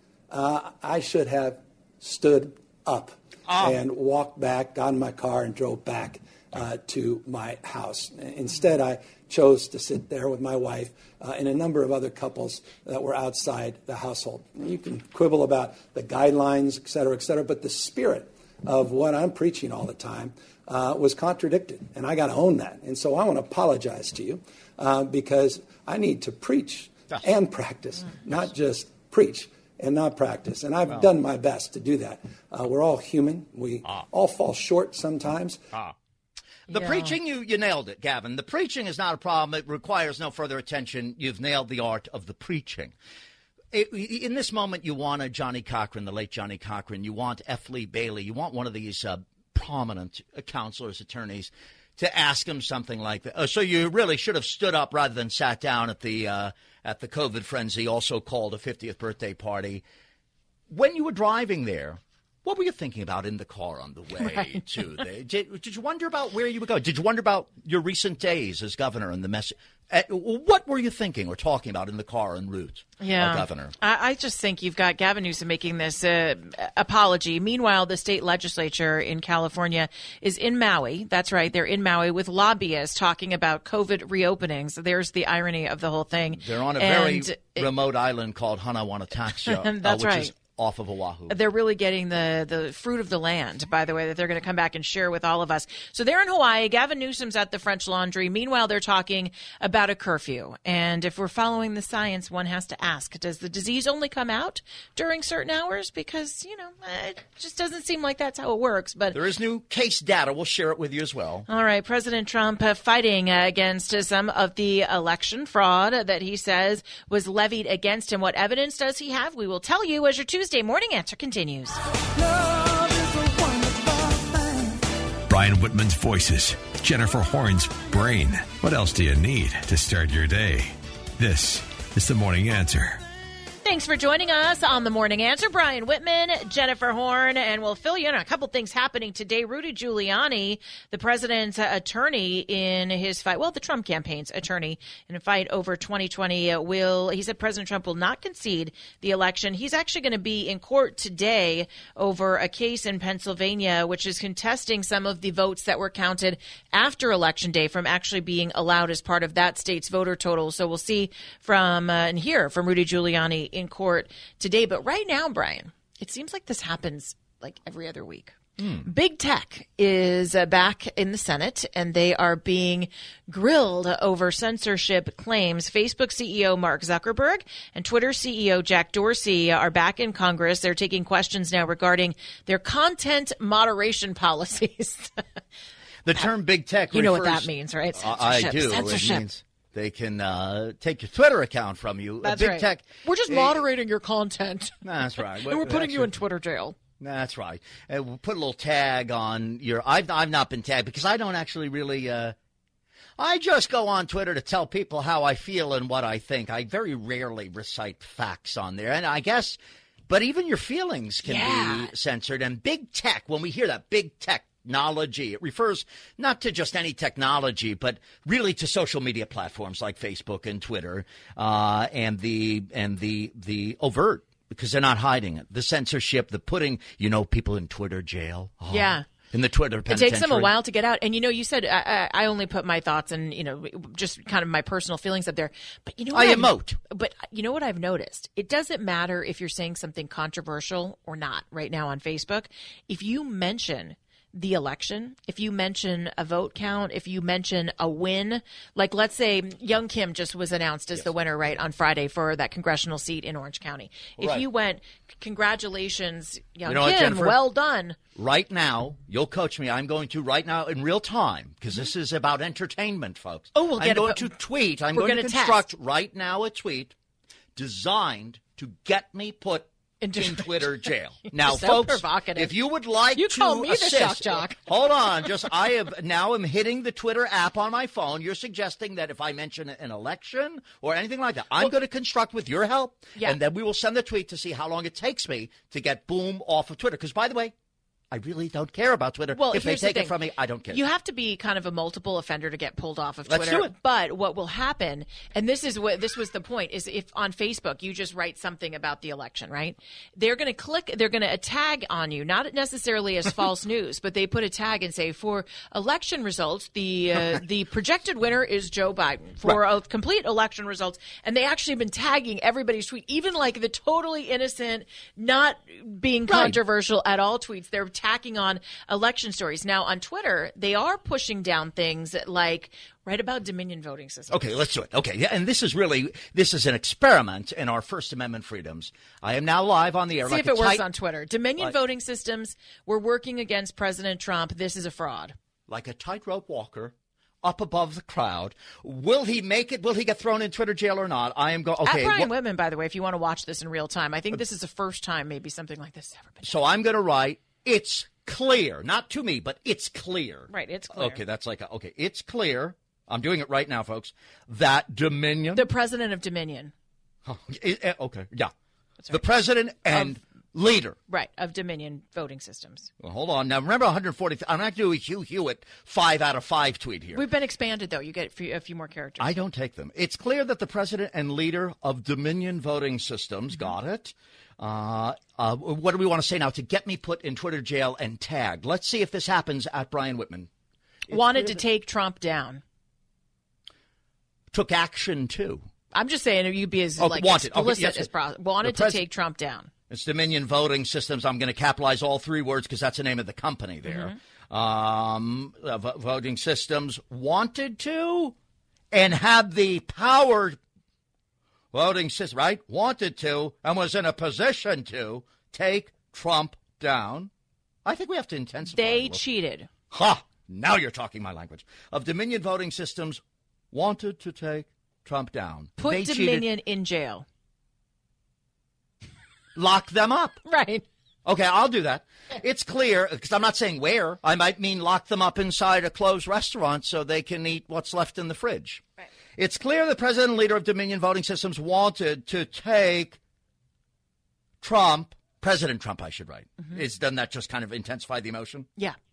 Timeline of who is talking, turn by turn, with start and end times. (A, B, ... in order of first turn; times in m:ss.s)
0:00.3-0:35.7 A
0:03.5-0:03.8 B
0:36.7-0:42.9 B
0:36.7-0:37.1 C
0:43.7-0:59.8 B
1:00.7-1:13.7 B
1:04.2-1:04.6 C
1:13.0-1:27.7 C
1:26.3-1:31.3 B
1:29.4-1:30.3 C
1:31.3-1:49.2 C
1:49.1-1:51.5 B
1:51.5-2:01.8 C
2:02.5-2:03.2 D
2:05.3-2:13.0 D
2:13.6-3:05.2 C
2:48.6-2:48.9 B
3:06.0-3:13.6 B
3:06.9-3:09.2 C
3:12.2-3:16.8 C
3:14.8-3:16.1 B
3:17.0-3:22.3 B
3:23.2-3:50.5 B
3:31.2-3:31.9 C
3:48.7-3:49.1 C
3:49.9-4:18.0 C
3:56.1-3:56.8 B
4:14.2-4:14.4 B
4:16.6-4:17.4 B
4:18.1-4:26.9 B
4:23.5-4:24.3 C
4:24.9-4:25.7 C
4:27.6-4:47.5 B
4:30.0-4:32.5 C
4:33.2-4:34.6 C
4:48.1-4:50.8 B
4:49.3-4:50.2 C
4:50.7-5:24.3 C
4:53.3-4:53.7 B
5:16.3-5:16.6 B
5:24.3-5:30.8 B
5:30.2-5:35.3 C
5:35.7-5:42.3 B
5:41.8-5:46.6 C
5:46.4-5:55.7 B
5:50.5-5:51.2 C
5:55.5-5:56.7 C
5:57.2-5:58.5 B
5:59.1-6:01.0 B
5:59.9-6:00.2 C
6:01.1-6:02.9 C
6:03.0-6:07.2 B
6:07.1-6:09.3 C
6:09.2-6:20.5 B
6:21.1-6:21.6 B
6:21.1-6:22.6 C
6:24.5-6:25.7 B
6:25.9-6:29.7 C
6:27.0-6:28.1 B
6:28.6-6:29.0 B
6:29.9-6:38.3 B
6:33.8-6:34.1 C
6:38.9-6:40.6 B
6:41.7-6:47.3 B
6:47.8-6:49.2 B
6:48.7-6:49.7 C
6:49.9-6:53.2 B
6:53.7-6:56.4 B
6:55.8-6:57.2 C
6:59.5-7:00.4 B
7:00.4-7:00.8 C
7:01.2-7:08.8 B
7:09.4-7:13.2 B
7:14.6-7:18.7 B